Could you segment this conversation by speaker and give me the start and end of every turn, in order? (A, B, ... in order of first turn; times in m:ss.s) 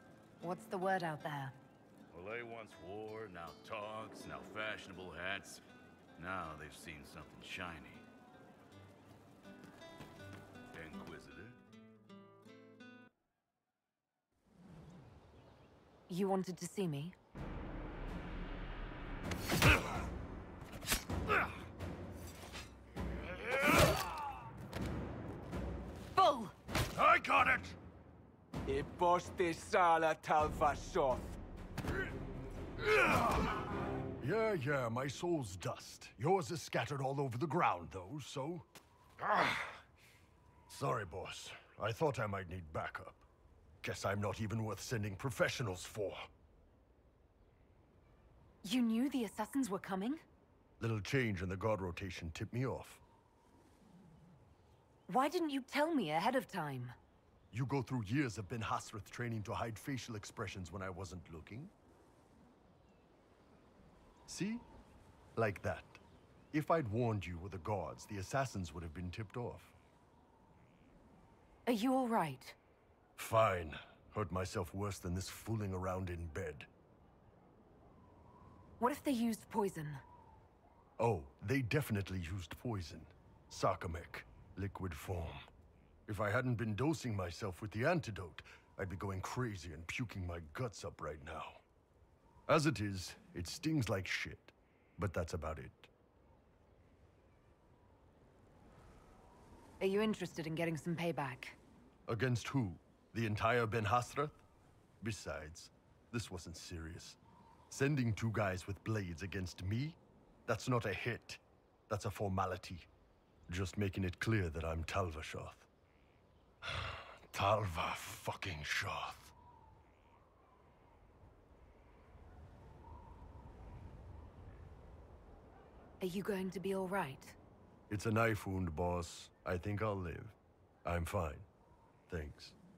0:00.4-0:01.6 A
0:02.1-0:05.6 B
0:06.2-0:08.0 B
0:10.7-0:11.6 B
0:16.1-0:17.1 A
0:26.1-0:26.5 A
0:26.9-0:27.8 C
0:28.7-0:31.3 D
0:34.2-0:38.7 C
0:39.2-0:39.8 C
0:40.7-0:43.3 C
0:43.8-0:46.3 C
0:48.6-0:50.2 A
0:50.8-0:53.0 C
0:55.1-0:56.9 A
0:57.5-1:01.7 C
1:04.3-1:04.7 C
1:05.4-1:06.0 C
1:06.5-1:09.7 C
1:11.6-1:12.6 A
1:13.2-1:16.7 C
1:18.8-1:20.0 A
1:21.0-1:25.4 C
1:26.1-1:31.6 C
1:32.5-1:35.9 C
1:39.8-1:41.6 A
1:42.1-1:44.4 C
1:45.0-1:52.9 C
1:53.5-1:55.7 C
1:56.6-1:59.3 C
2:06.0-2:07.4 A
2:07.9-2:11.5 C
2:12.1-2:12.6 C